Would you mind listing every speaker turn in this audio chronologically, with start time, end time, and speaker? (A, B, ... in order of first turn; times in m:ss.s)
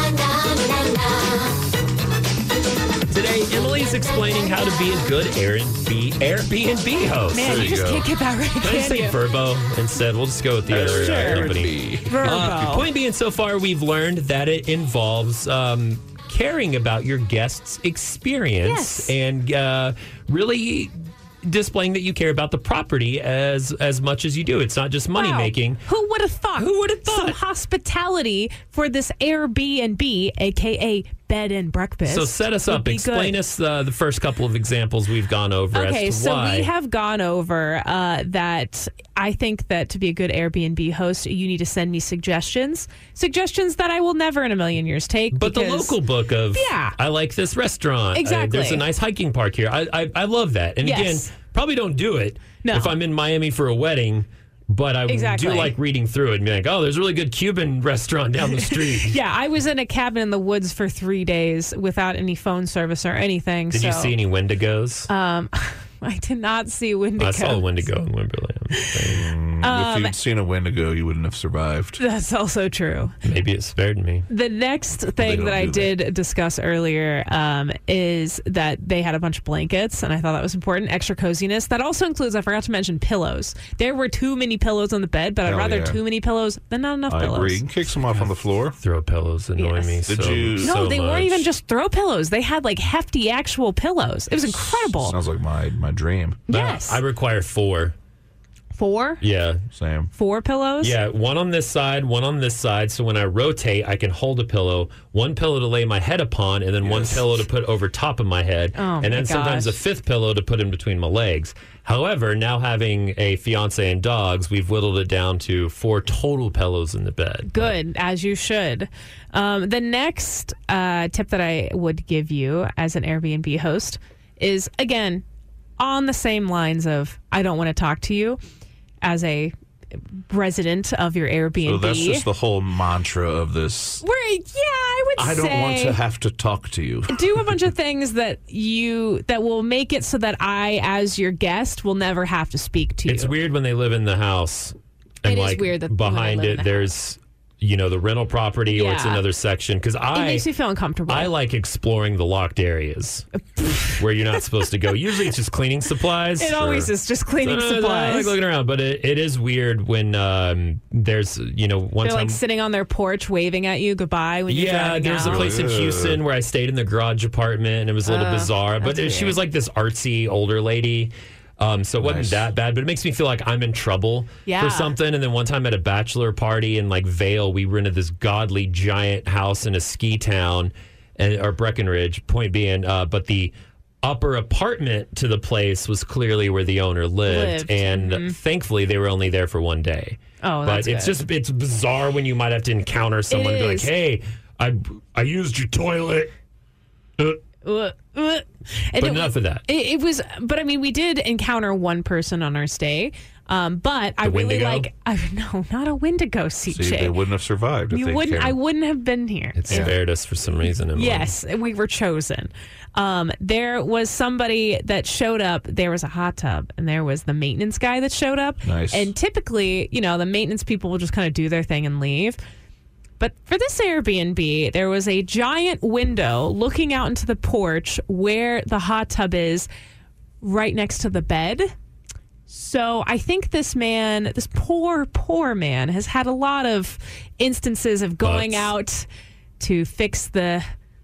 0:03.1-0:07.6 A
0:07.3-0:09.2 B
0:07.4-0:08.1 C
0:08.6-0:25.8 A
0:10.7-0:12.6 C
0:10.8-0:11.6 B
0:12.1-0:12.9 B
0:18.6-0:19.1 B
0:25.1-0:33.4 B
0:26.6-0:27.4 A
0:32.1-0:36.7 A
0:35.7-0:46.0 B
0:45.3-0:59.2 A
0:46.5-0:47.0 B
0:48.1-0:48.8 B
0:50.8-0:51.3 B
0:52.6-0:53.0 B
0:55.1-0:55.8 B
0:58.4-1:04.2 B
1:03.7-1:05.1 A
1:05.1-1:07.9 B
1:07.2-1:09.2 A
1:08.7-1:10.2 B
1:09.1-1:12.0 C
1:12.0-1:13.1 B
1:13.2-1:14.3 A
1:14.3-1:27.7 B
1:15.2-1:16.0 C
1:25.4-1:26.0 C
1:27.1-1:28.8 C
1:28.8-1:31.5 A
1:29.6-1:30.0 B
1:30.1-1:30.8 C
1:30.6-1:35.2 B
1:34.5-1:36.4 C
1:36.5-1:37.0 B
1:36.5-1:38.0 A
1:38.8-1:39.2 B
1:39.2-1:39.6 A
1:39.7-1:40.1 C
1:40.1-1:41.0 B
1:40.8-1:57.8 A
1:46.8-1:47.4 C
1:48.8-1:49.8 B
1:57.5-2:05.2 B
2:05.8-2:08.4 B
2:09.0-2:09.6 B
2:10.3-2:12.3 B
2:11.6-2:14.0 C
2:14.0-2:16.0 B
2:15.2-2:17.3 C
2:17.1-2:23.4 B
2:23.1-2:30.5 A
2:25.2-2:26.9 B
2:28.7-2:29.2 B
2:30.1-2:31.3 B
2:31.1-2:33.3 A
2:33.6-2:35.2 B
2:34.0-2:42.4 A
2:36.4-2:38.4 B
2:42.0-2:45.5 B
2:44.5-3:16.3 A
2:45.2-2:46.2 C
2:48.0-2:49.4 B
2:52.0-2:52.4 C
2:54.5-2:54.9 B
3:07.3-3:08.4 B
3:10.4-3:11.2 B
3:13.3-3:13.9 B
3:17.6-3:27.2 B
3:19.0-3:19.6 A
3:24.2-3:24.9 A
3:26.7-3:28.6 C
3:27.9-3:30.0 B
3:29.6-3:31.4 A
3:29.7-3:30.0 C
3:30.9-3:42.4 B
3:38.6-3:39.1 C
3:43.2-3:49.7 B
3:50.4-3:51.7 B
3:52.5-3:59.1 B
3:58.2-3:58.7 A
3:59.6-4:00.7 B